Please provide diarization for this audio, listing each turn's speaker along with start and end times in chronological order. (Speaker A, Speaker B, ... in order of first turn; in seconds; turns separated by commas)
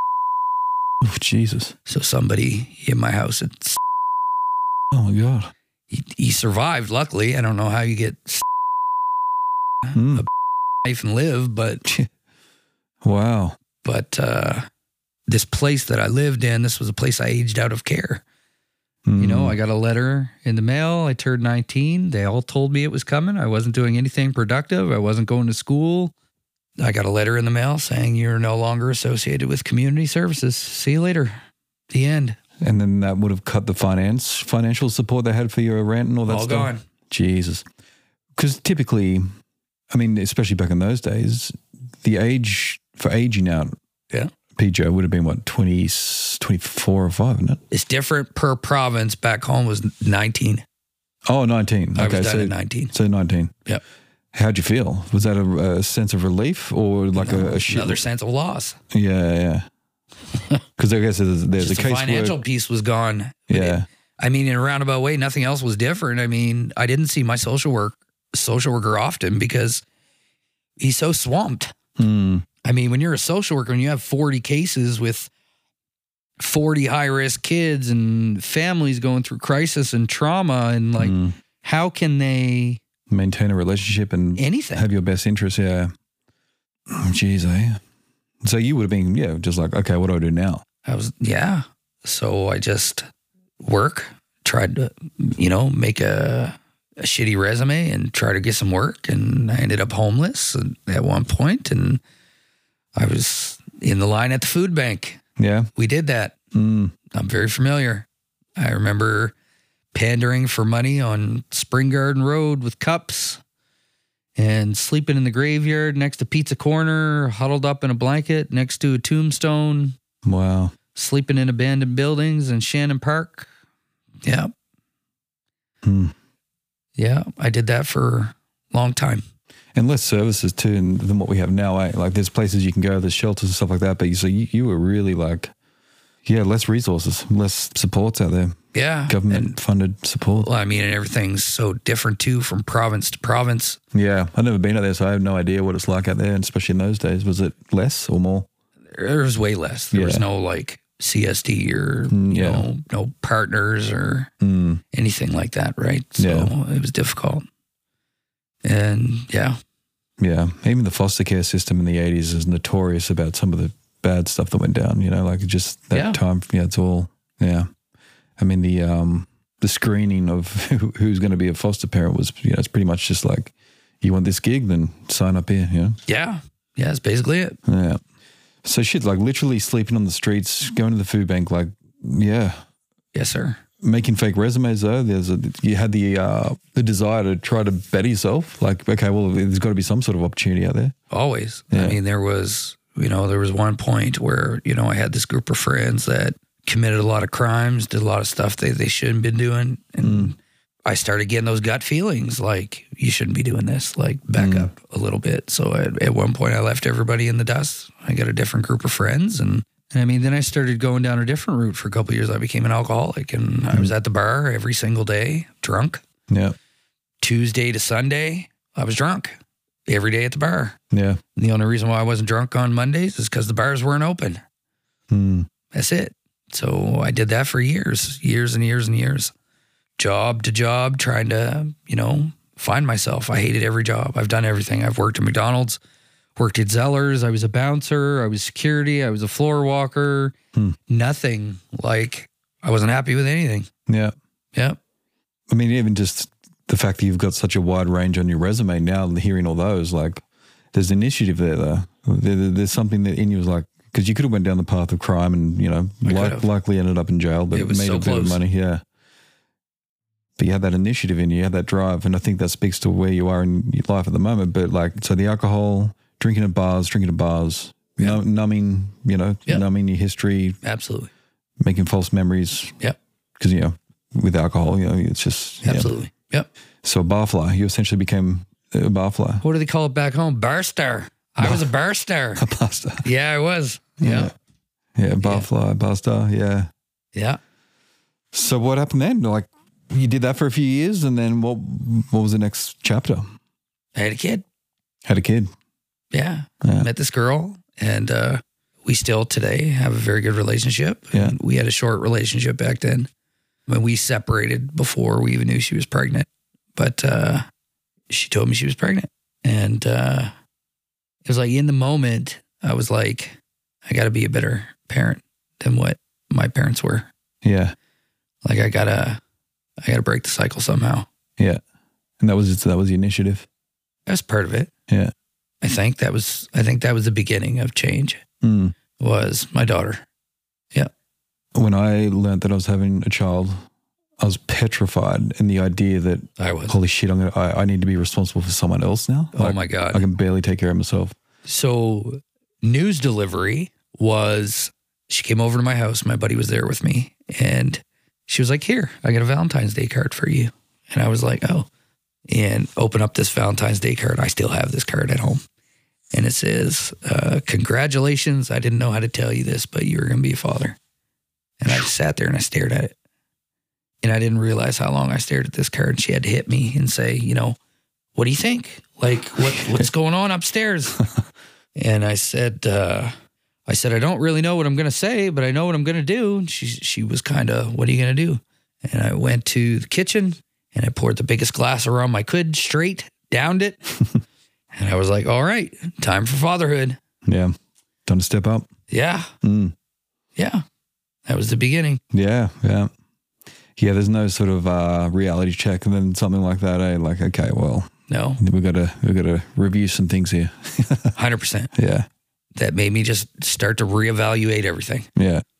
Speaker A: 1.0-1.7, Speaker B: 1.9-3.8, Speaker A: 4.9-5.5, Speaker B: 5.9-8.4, Speaker B: 9.8-10.3, Speaker A: 9.9-10.2, Speaker B: 10.8-11.8, Speaker A: 13.0-13.6, Speaker B: 13.8-14.7, Speaker B: 15.3-18.2, Speaker A: 19.1-19.6, Speaker B: 19.2-26.1, Speaker B: 26.8-31.4, Speaker B: 31.9-32.4, Speaker A: 32.6-37.6, Speaker B: 36.3-36.8, Speaker A: 38.4-39.3, Speaker A: 39.9-43.7, Speaker A: 44.5-47.6, Speaker B: 47.7-50.6, Speaker A: 51.2-53.5, Speaker B: 52.0-52.9, Speaker A: 54.3-58.0, Speaker B: 57.1-58.8, Speaker A: 58.9-59.7, Speaker A: 60.8-62.4, Speaker B: 61.6-69.8, Speaker A: 63.5-63.9, Speaker B: 70.8-71.7, Speaker A: 72.0-72.5, Speaker B: 72.6-75.3, Speaker B: 76.4-82.8, Speaker A: 81.0-81.3, Speaker A: 83.1-85.9, Speaker B: 84.4-84.8, Speaker A: 86.9-87.8, Speaker A: 88.4-90.6, Speaker B: 90.8-93.0, Speaker B: 93.6-102.0, Speaker B: 102.9-105.2, Speaker A: 105.4-105.7, Speaker B: 105.8-106.3, Speaker A: 106.5-106.9, Speaker B: 107.1-108.0, Speaker B: 108.6-109.3, Speaker B: 109.9-113.4, Speaker B: 114.3-120.0, Speaker A: 120.2-120.7, Speaker B: 120.9-123.5, Speaker B: 124.2-124.5, Speaker A: 125.8-126.1, Speaker B: 127.0-129.2, Speaker A: 129.7-135.5, Speaker A: 136.2-140.5, Speaker B: 138.7-139.6, Speaker B: 140.4-143.8, Speaker A: 143.9-148.5, Speaker B: 148.9-154.3, Speaker A: 149.9-150.2, Speaker A: 152.1-152.7, Speaker A: 154.4-154.8, Speaker B: 154.9-157.4, Speaker A: 156.2-156.5, Speaker B: 158.6-159.6, Speaker A: 160.2-167.7, Speaker B: 165.9-166.2, Speaker A: 168.4-176.0, Speaker B: 176.1-177.6, Speaker A: 177.7-178.0, Speaker A: 178.6-182.6, Speaker B: 183.1-183.6, Speaker A: 183.8-190.9, Speaker B: 191.1-216.0, Speaker A: 191.7-192.0, Speaker A: 200.0-200.3, Speaker A: 204.4-204.7, Speaker A: 216.3-216.6, Speaker B: 217.2-220.8, Speaker A: 220.9-221.2, Speaker B: 221.3-224.4, Speaker A: 225.1-225.5, Speaker B: 225.7-229.3, Speaker B: 230.0-235.8, Speaker B: 236.4-240.3, Speaker B: 240.9-243.7, Speaker A: 243.9-244.1, Speaker A: 245.5-250.2, Speaker A: 250.7-258.8, Speaker B: 256.0-256.5, Speaker B: 257.5-258.4, Speaker A: 260.4-270.6, Speaker B: 270.6-271.1, Speaker A: 271.6-272.7, Speaker A: 273.4-275.9, Speaker B: 275.6-276.5, Speaker A: 276.8-279.4, Speaker B: 279.4-282.4, Speaker A: 282.4-283.1, Speaker B: 283.0-284.3, Speaker A: 284.0-284.3, Speaker A: 284.9-286.7, Speaker A: 288.3-293.3, Speaker B: 293.9-294.4, Speaker A: 295.1-295.5, Speaker B: 296.1-303.1, Speaker A: 296.6-296.9, Speaker B: 303.7-307.4, Speaker B: 308.1-310.3, Speaker B: 311.2-317.1, Speaker A: 317.4-317.7, Speaker B: 318.4-319.2, Speaker B: 319.8-321.1, Speaker A: 322.2-323.4, Speaker B: 324.1-324.7, Speaker B: 325.6-328.2, Speaker A: 328.4-328.7, Speaker B: 329.0-330.0, Speaker A: 331.5-333.6, Speaker A: 334.2-341.1, Speaker B: 336.4-336.8, Speaker B: 339.3-340.1, Speaker B: 341.4-351.7, Speaker B: 352.3-355.4, Speaker B: 356.1-360.8, Speaker B: 361.6-362.9, Speaker B: 364.0-367.6, Speaker B: 368.1-371.0, Speaker A: 369.4-369.9, Speaker B: 371.8-373.1, Speaker B: 373.7-383.8, Speaker B: 384.7-387.0, Speaker A: 387.2-387.5, Speaker A: 388.1-388.7, Speaker B: 388.9-389.3, Speaker A: 389.4-389.7, Speaker B: 390.4-390.6, Speaker B: 391.2-392.0, Speaker A: 392.1-392.9, Speaker A: 393.8-401.1, Speaker B: 398.1-398.4, Speaker B: 401.1-401.7, Speaker A: 401.7-402.1, Speaker B: 402.5-405.1, Speaker A: 405.1-405.4